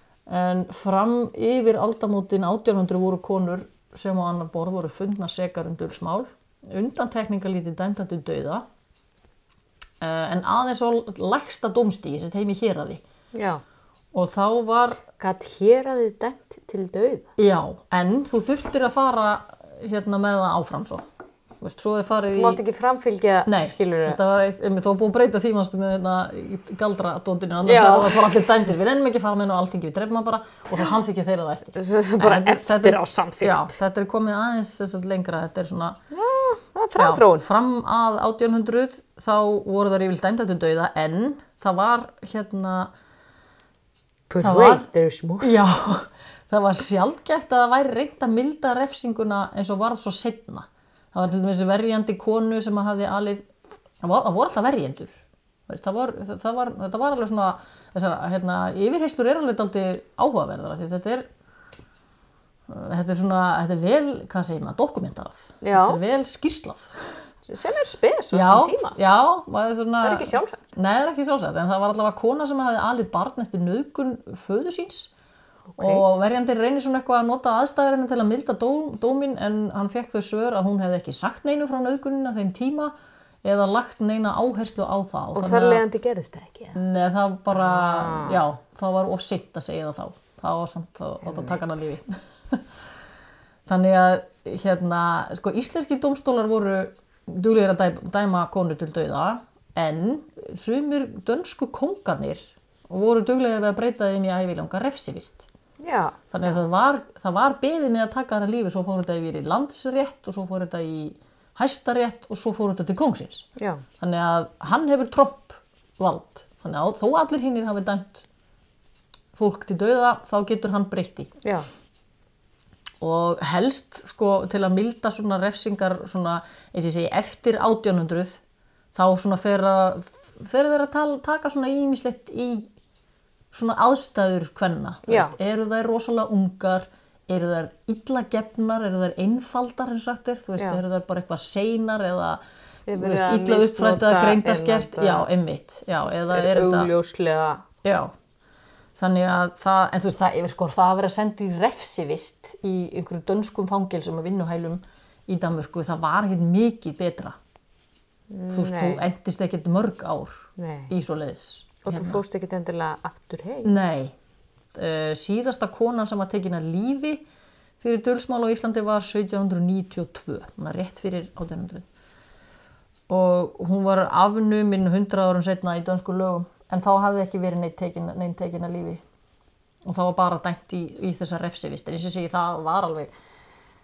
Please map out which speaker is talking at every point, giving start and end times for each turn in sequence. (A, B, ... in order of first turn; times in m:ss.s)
0:00.3-0:08.6 A
0:10.0-0:13.0 A
0:13.3-0:13.6 B
0:14.1-0:15.0 A
0:15.2-0:17.3 B
0:17.4-0:21.0 A
0:21.6-0:22.6 A
0:22.3-0:24.2 B
0:23.5-0:36.0 A
0:27.6-0:28.5 B
0:31.8-0:33.7 B
0:36.1-0:37.5 B
0:37.0-0:42.9 A
0:44.3-0:45.6 B
0:44.4-0:44.9 A
0:45.4-0:53.5 A
0:54.0-0:55.1 A
0:55.7-1:01.3 A
1:02.7-1:07.1 A
1:05.6-1:06.0 B
1:07.5-1:09.0 B
1:08.3-1:15.1 A
1:10.0-1:10.6 B
1:15.8-1:16.1 B
1:15.8-1:25.8 A
1:25.4-1:26.8 B
1:26.7-1:32.6 A
1:27.5-1:28.4 B
1:31.2-1:31.8 B
1:33.7-1:45.5 A
1:45.8-1:46.2 B
1:46.3-1:53.5 A
1:53.6-1:53.8 B
1:54.0-1:58.3 A
1:59.4-2:01.3 A
2:01.4-2:01.7 B
2:03.0-2:08.4 A
2:08.9-2:12.7 A
2:13.5-2:22.4 A
2:15.1-2:15.4 B
2:22.9-2:25.3 B
2:23.0-2:26.9 A
2:26.1-2:27.6 B
2:27.8-2:28.1 A
2:29.0-2:37.4 A
2:38.3-2:39.0 B
2:38.5-2:42.2 A
2:40.6-2:40.9 B
2:41.8-2:43.7 B
2:43.6-2:44.1 A
2:44.8-2:47.2 A
2:47.8-2:51.9 A
2:53.1-2:59.0 A
2:59.8-3:03.1 A